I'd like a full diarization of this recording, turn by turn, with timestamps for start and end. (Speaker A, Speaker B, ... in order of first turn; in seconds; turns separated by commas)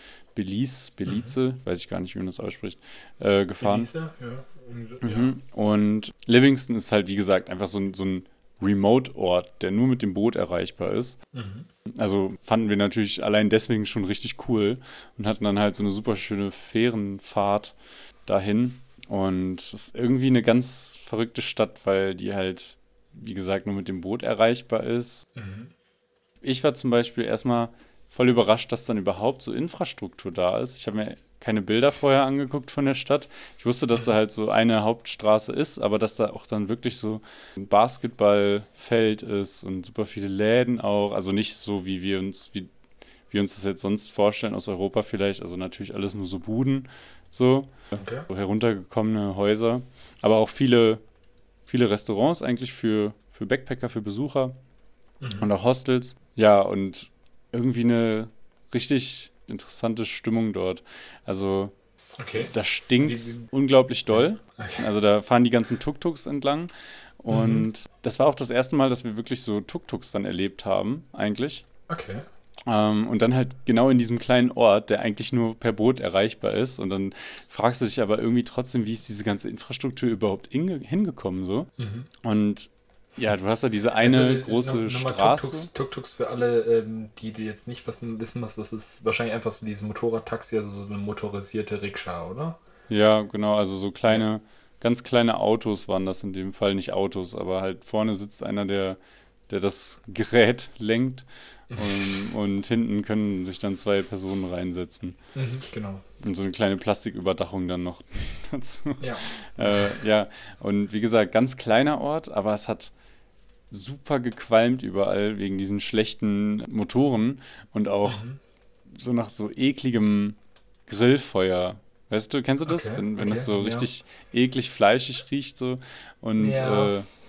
Speaker A: 0.3-3.9, Speaker B: 1.1-1.4, Speaker B: 3.6-5.3, Speaker A: 5.0-11.2, Speaker B: 11.3-11.7, Speaker A: 11.9-25.2, Speaker B: 25.4-25.7, Speaker A: 26.4-42.7, Speaker A: 43.3-51.0, Speaker B: 48.0-48.2, Speaker A: 51.7-54.5, Speaker B: 55.2-55.5, Speaker A: 55.4-61.7, Speaker B: 62.2-63.4, Speaker A: 62.5-71.6, Speaker B: 64.1-64.8, Speaker B: 67.3-67.7, Speaker B: 71.9-72.2, Speaker A: 72.7-81.7, Speaker B: 81.8-82.1, Speaker A: 82.2-85.7, Speaker B: 84.0-92.6, Speaker A: 92.9-105.2, Speaker B: 101.7-102.2, Speaker B: 105.3-106.0, Speaker A: 106.2-112.9, Speaker B: 109.0-110.0, Speaker A: 113.7-118.2, Speaker B: 118.0-118.4, Speaker A: 118.9-127.1, Speaker B: 122.7-123.9, Speaker B: 126.4-127.0